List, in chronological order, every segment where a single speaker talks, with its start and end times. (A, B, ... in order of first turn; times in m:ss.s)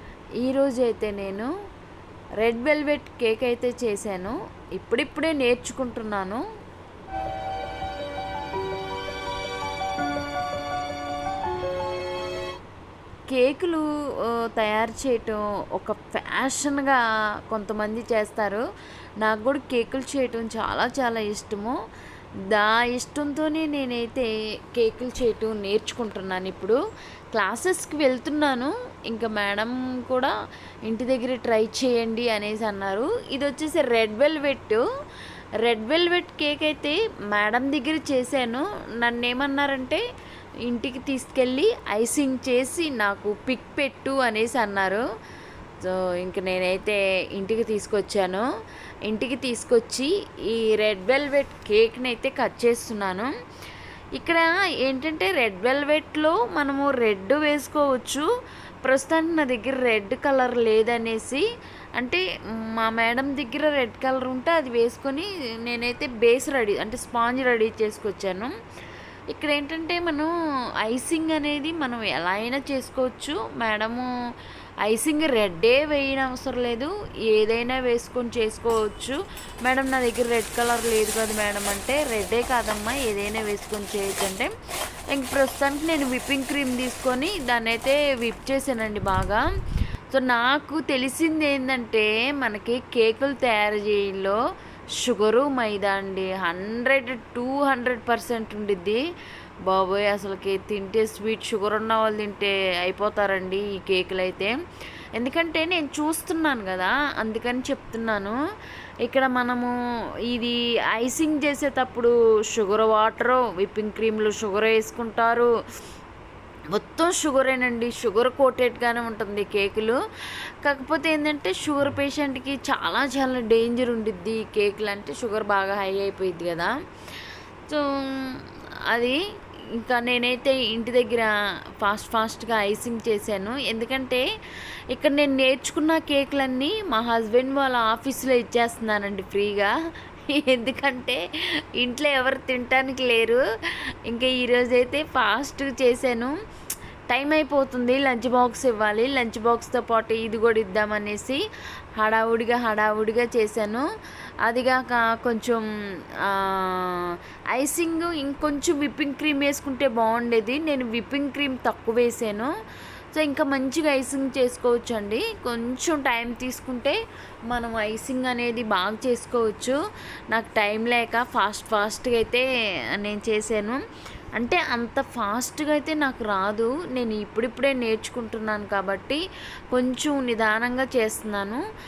0:00.4-0:01.5 A
0:02.4-0:06.4 A
0:13.3-0:18.6 A
0:19.2-0:21.7 A
0:22.5-0:26.8 A
0:27.3-0:30.3 A
0:30.9-0:34.8 A
0:35.6-0:40.0 A
0:40.7-0:45.0 A
0:45.8-0:48.4 A
0:49.1-0:53.3 A
0:54.2-0:58.3 A
0:58.8-1:01.4 A
1:02.0-1:08.5 A
1:09.3-1:10.3 A
1:10.8-1:14.1 A
1:14.8-1:24.5 A
1:25.1-1:29.4 A
1:30.1-1:34.4 A
1:35.0-1:39.0 A
1:39.6-1:44.5 A
1:45.2-1:48.4 A
1:49.0-1:49.7 A
1:50.3-1:55.5 A
1:56.7-2:00.0 A
2:00.6-2:08.4 A
2:08.9-2:09.2 A
2:09.8-2:14.2 A
2:14.9-2:19.7 A
2:20.3-2:21.2 A
2:21.8-2:23.4 A
2:24.1-2:26.3 A
2:27.1-2:31.4 A
2:32.0-2:33.8 A
2:34.4-2:35.6 A
2:36.2-2:42.5 A
2:43.1-2:49.8 A
2:50.3-2:52.4 A
2:53.0-2:53.8 A
2:54.4-2:59.2 A
2:59.7-3:01.6 A